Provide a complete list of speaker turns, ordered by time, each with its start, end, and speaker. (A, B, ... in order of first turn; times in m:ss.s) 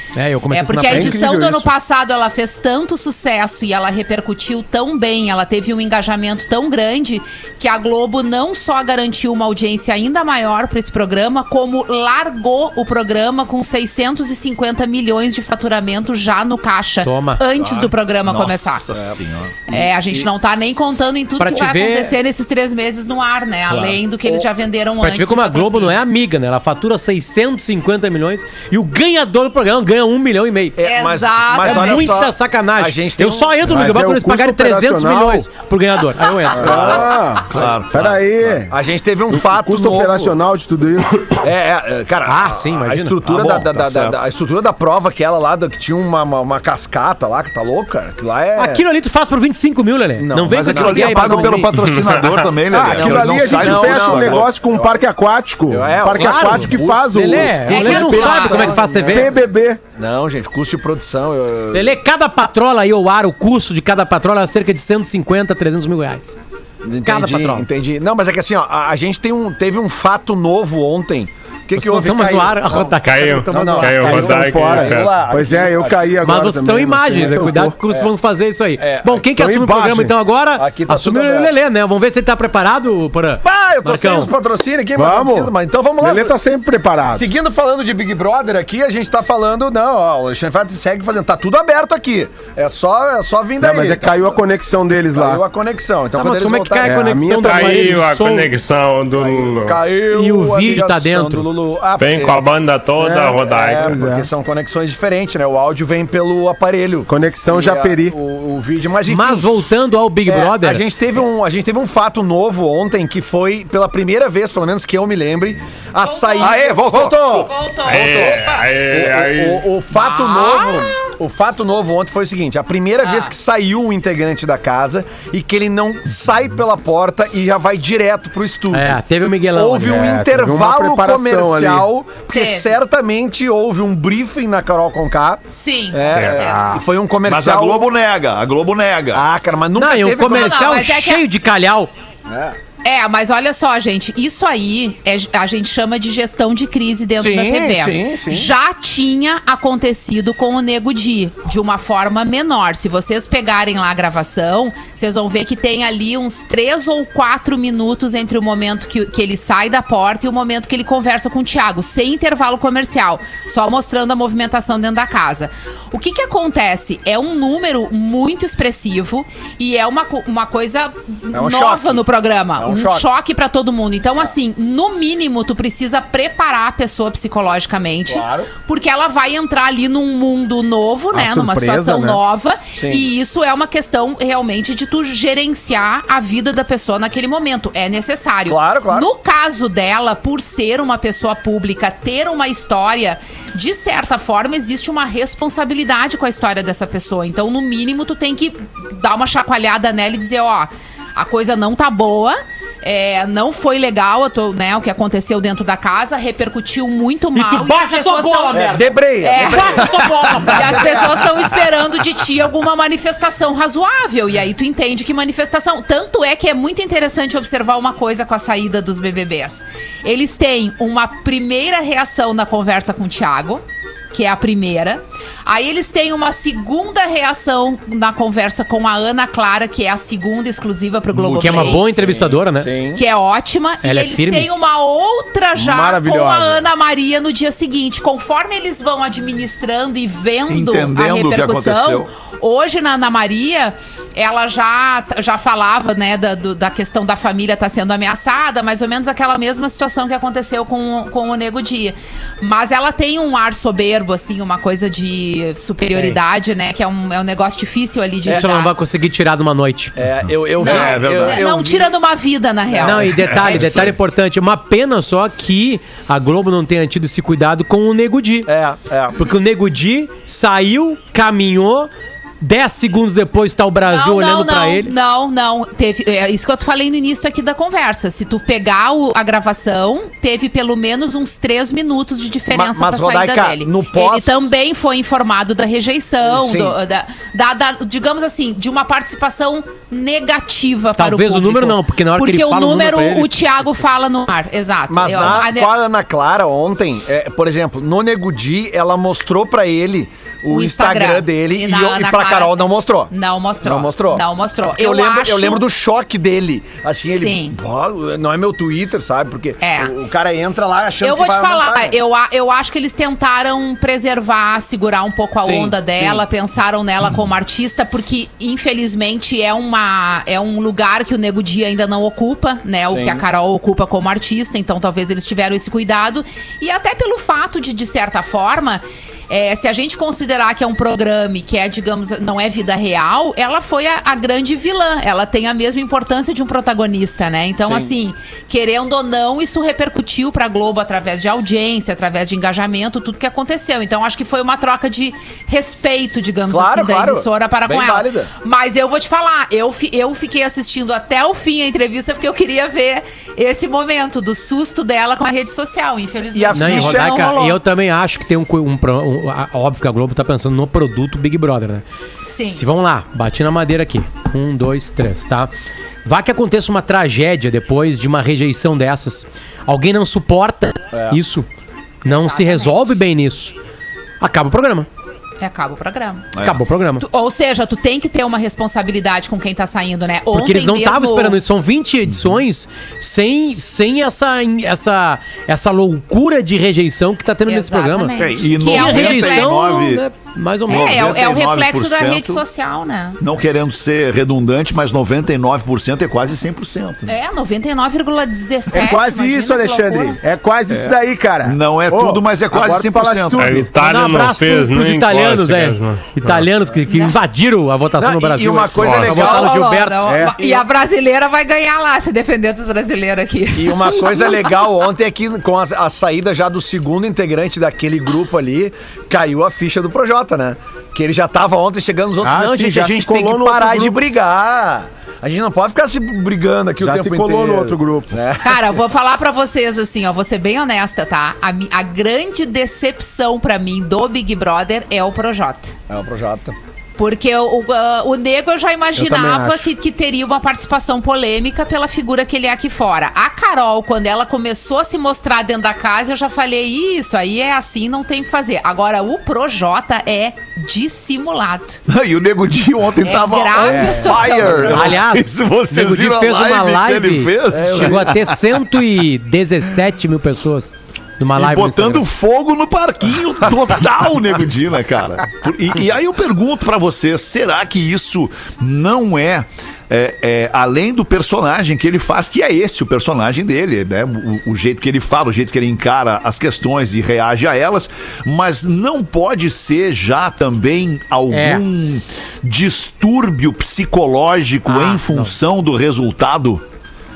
0:00.2-0:01.2 A
0:00.5-0:18.8 B
0:00.9-0:01.7 C
0:17.0-0:17.4 A
0:17.6-0:19.6 D
0:18.9-0:19.2 E
0:19.7-0:26.0 B
0:19.7-0:20.2 E
0:21.4-0:22.2 A
0:23.7-0:24.0 A
0:25.0-0:30.8 A
0:30.8-0:33.7 E
0:30.8-0:32.2 B
0:31.6-0:36.9 A
0:33.7-0:35.5 C
0:36.6-0:38.7 C
0:36.6-0:38.7 D
0:36.6-0:37.0 E
0:38.7-0:40.4 E
0:39.3-0:41.4 C
0:41.4-0:48.8 E
0:42.3-0:43.2 A
0:43.2-0:44.2 D
0:48.6-0:51.8 A
0:50.2-0:51.6 E
0:50.6-0:54.5 D
0:51.7-0:52.4 F
0:52.7-0:59.8 C
0:52.7-0:55.0 E
0:55.7-0:59.3 E
0:56.1-0:59.3 A
0:57.7-0:58.8 B
1:00.0-1:02.0 E
1:01.7-1:06.4 A
1:06.8-1:16.2 E
1:07.0-1:07.7 A
1:11.7-1:14.3 A
1:13.0-1:15.1 F
1:14.1-1:17.8 C
1:16.2-1:24.3 A
1:17.1-1:18.1 E
1:18.8-1:19.3 E
1:19.4-1:20.2 C
1:20.6-1:21.5 E
1:23.4-1:26.4 E
1:25.0-1:27.3 C
1:27.0-1:34.2 E
1:33.6-1:35.4 C
1:35.1-1:37.0 E
1:36.2-1:38.5 A
1:36.8-1:37.9 C
1:37.2-1:39.8 F
1:39.2-1:42.5 E
1:40.1-1:41.5 A
1:42.0-1:44.0 F
1:43.0-1:44.3 C
1:43.0-1:49.5 E
1:47.1-1:48.2 C
1:49.1-1:50.8 A
1:50.3-2:09.0 E
1:56.0-1:58.7 B
1:56.4-1:57.5 D
1:57.8-1:59.7 F
1:59.9-2:01.1 B
2:03.0-2:03.3 B
2:08.7-2:10.2 A
2:09.5-2:17.9 E
2:09.8-2:11.9 C
2:12.3-2:12.8 B
2:15.5-2:16.8 B
2:16.1-2:16.8 F
2:17.2-2:19.2 D
2:19.1-2:20.6 E
2:19.8-2:21.9 A
2:20.3-2:21.2 B
2:22.3-2:22.6 E
2:22.8-3:29.9 B
2:27.2-2:28.5 E
2:51.3-2:52.0 E
2:52.6-2:53.0 E
2:58.1-2:58.5 E
3:01.1-3:02.2 C
3:02.8-3:03.1 E
3:08.5-3:09.1 E
3:27.4-3:31.1 A
3:28.5-3:30.0 E
3:30.5-3:51.9 B
3:30.6-3:30.8 E
3:51.2-3:53.0 E
3:51.2-3:52.7 A
3:53.0-4:18.7 B
3:53.8-3:54.5 A
3:55.6-3:56.6 C
4:00.5-4:02.1 D
4:18.3-4:20.0 A
4:20.0-4:21.9 E
4:20.6-4:24.0 B
4:20.6-4:21.4 D
4:22.7-4:24.0 E
4:22.8-4:28.5 A
4:23.2-4:23.8 D
4:28.5-4:29.2 E
4:29.2-4:34.9 A
4:33.9-4:55.7 B
4:42.5-4:44.5 E
4:46.2-4:46.8 E
4:51.0-4:53.3 A
4:54.9-5:12.0 E
5:00.5-5:05.7 B
5:07.1-5:07.6 B
5:09.6-5:09.9 B
5:11.0-5:57.6 B
5:15.4-5:16.2 E
5:22.9-5:23.2 E
5:37.6-5:37.9 E
5:46.5-5:48.3 E
5:56.3-5:57.2 E
5:56.5-6:01.8 A
6:02.3-6:02.6 B
6:02.5-6:05.5 A
6:06.0-6:11.5 A
6:10.9-6:11.2 E
6:12.0-6:13.5 A
6:12.1-6:12.8 B
6:14.2-6:14.9 A
6:15.4-6:16.3 B
6:16.3-6:16.6 D
6:16.4-6:17.0 A
6:17.0-6:21.4 B
6:20.3-6:31.1 A
6:27.5-6:29.9 B
6:28.2-6:30.0 D
6:30.7-6:32.4 D
6:30.7-6:33.2 B
6:33.2-6:37.1 D
6:37.1-6:40.2 B
6:38.7-6:43.7 C
6:40.7-6:43.6 D
6:43.4-6:46.5 F
6:43.8-6:50.1 A
6:46.9-6:47.2 B
6:48.0-6:49.6 E
6:48.8-6:49.2 F
6:49.0-6:54.5 B
6:50.0-6:50.3 C
6:50.4-6:50.6 E
6:53.6-7:08.7 E
7:02.2-7:04.0 C
7:06.8-7:08.2 C
7:08.4-7:15.8 B
7:15.9-7:16.6 E
7:17.0-7:31.8 B
7:19.0-7:19.7 C
7:31.9-7:38.6 D
7:33.0-7:35.0 B
7:33.6-7:34.7 E
7:34.6-7:42.1 A
7:37.5-7:38.2 E
7:41.4-8:06.6 D
8:01.3-8:01.6 A
8:04.7-8:05.4 A